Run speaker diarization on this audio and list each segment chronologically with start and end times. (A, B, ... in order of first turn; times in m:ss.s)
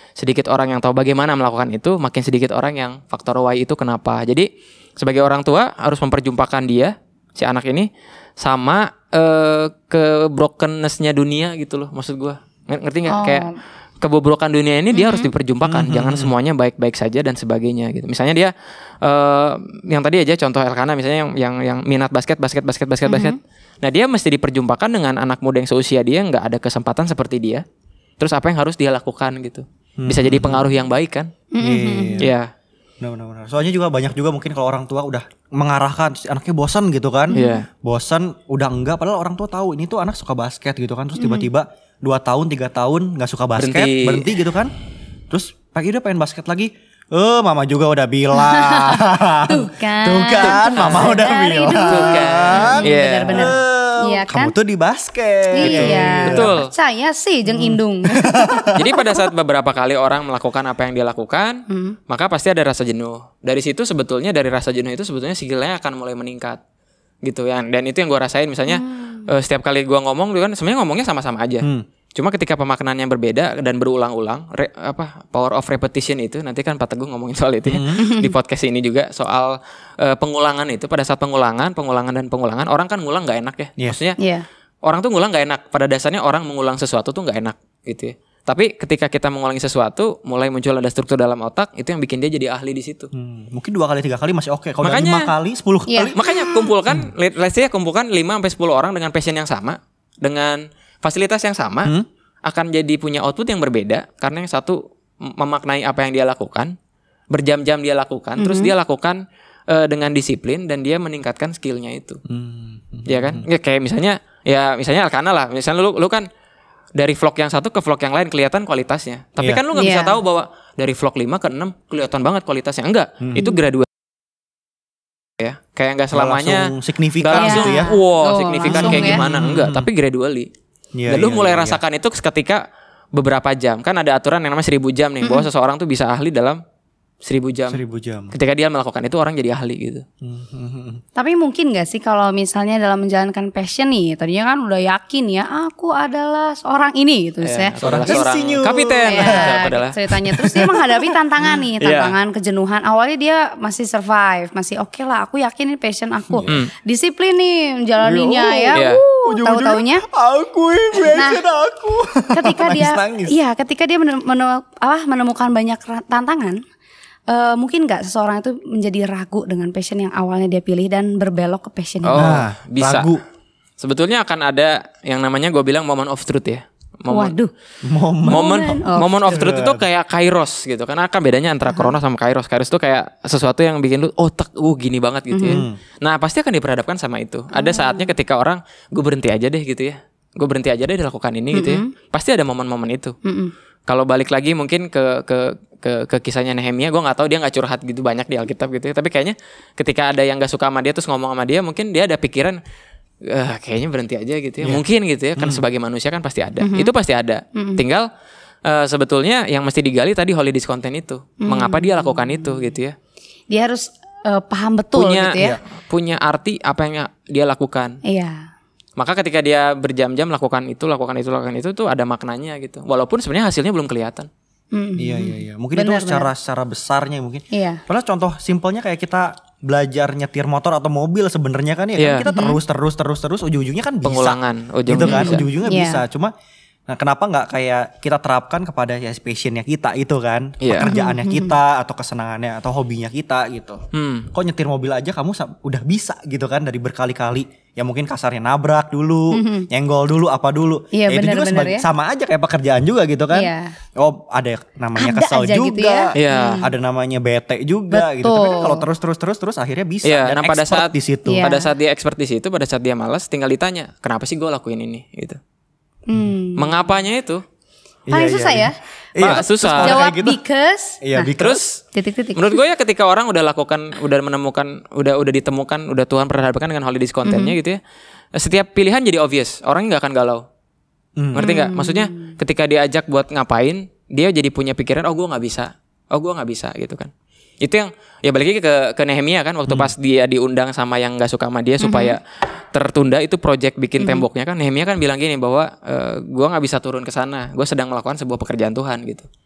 0:00.2-0:04.5 A
0:05.0-0:07.9 A
0:08.4-0:13.5 A
0:13.1-0:13.6 B
0:14.0-0:27.6 A
0:14.9-0:15.3 B
0:15.6-0:16.3 C
0:23.0-0:23.4 B
0:28.2-0:31.3 A
0:30.0-0:30.7 C
0:31.5-0:32.2 B
0:31.6-0:32.3 C
0:32.2-0:32.5 A
0:33.0-0:44.7 C
0:37.3-0:37.6 B
0:37.3-0:37.6 A
0:41.2-0:41.5 B
0:43.6-0:44.3 A
0:45.3-0:56.6 C
0:48.3-0:54.5 B
0:50.4-0:51.2 A
0:51.8-0:53.5 A
0:55.5-0:59.2 B
0:55.6-0:56.7 A
0:57.5-0:58.9 C
0:58.8-1:06.6 A
1:01.7-1:02.0 B
1:07.2-1:24.2 A
1:08.7-1:09.3 B
1:17.6-1:18.0 C
1:18.0-1:18.3 B
1:24.2-1:24.4 B
1:24.8-1:33.1 A
1:33.1-1:36.2 C
1:34.8-1:35.3 A
1:35.9-1:36.7 B
1:36.1-1:41.9 A
1:42.4-1:46.8 A
1:47.3-1:52.2 A
1:48.4-1:48.7 B
1:52.2-1:53.5 C
1:53.1-1:56.3 A
1:57.0-2:03.9 A
1:59.7-2:00.2 B
2:05.4-2:10.5 A
2:06.1-2:08.0 C
2:07.4-2:09.2 B
2:08.7-2:09.9 C
2:11.0-2:11.8 C
2:11.1-2:12.6 A
2:13.1-2:16.6 A
2:15.2-2:15.5 B
2:17.2-2:17.8 A
2:17.7-2:18.3 C
2:18.3-2:20.0 A
2:20.2-2:21.0 C
2:21.2-2:28.2 B
2:27.4-2:30.0 A
2:27.8-2:29.7 C
2:29.0-2:40.0 B
2:30.3-2:31.1 C
2:31.8-2:32.2 A
2:36.3-2:36.6 C
2:38.0-2:43.3 C
2:38.8-2:39.0 A
2:41.1-2:41.4 B
2:42.3-2:46.6 B
2:47.3-2:52.4 B
2:52.0-2:53.1 A
2:52.2-2:53.2 C
2:53.8-2:57.3 A
2:57.1-2:57.5 B
2:57.8-2:58.6 C
2:58.2-2:59.4 B
2:58.3-3:13.2 A
2:59.3-2:59.8 C
3:01.7-3:01.9 B
3:05.3-3:05.6 B
3:05.4-3:05.8 C
3:07.5-3:08.1 B
3:11.5-3:11.9 B
3:13.2-3:13.5 B
3:13.9-3:22.6 A
3:23.2-3:28.0 A
3:25.4-3:25.6 C
3:26.6-3:26.9 B
3:27.5-3:27.8 B
3:28.6-3:33.0 A
3:31.4-3:32.7 B
3:33.5-3:35.6 B
3:35.0-3:38.0 A
3:38.0-3:38.5 B
3:39.0-3:44.3 A
3:44.7-3:46.3 B
3:45.0-3:56.3 C
3:47.5-3:47.8 B
3:52.0-3:52.3 A
3:52.2-3:52.6 B
3:54.0-3:55.5 A
3:55.0-3:56.0 B
3:56.9-4:21.5 C
4:00.6-4:00.9 A
4:00.8-4:01.5 B
4:03.9-4:04.3 A
4:09.3-4:09.7 B
4:10.9-4:11.8 B
4:13.3-4:13.7 B
4:15.0-4:16.7 B
4:16.2-4:16.6 A
4:17.9-4:18.8 B
4:20.0-4:25.4 A
4:21.2-4:21.7 B
4:26.1-4:26.9 B
4:26.6-4:27.4 A
4:28.1-4:30.4 C
4:28.1-4:31.3 B
4:29.2-4:30.0 A
4:31.0-4:31.6 C
4:31.4-4:31.8 A
4:31.9-4:32.6 B
4:32.3-4:37.8 A
4:37.2-4:37.5 B
4:38.3-4:40.4 A
4:41.2-4:41.5 C
4:41.3-4:52.2 A
4:41.4-4:42.4 B
4:49.7-4:49.9 C
4:51.8-4:52.2 B
4:52.7-4:59.3 A
4:54.0-4:54.2 B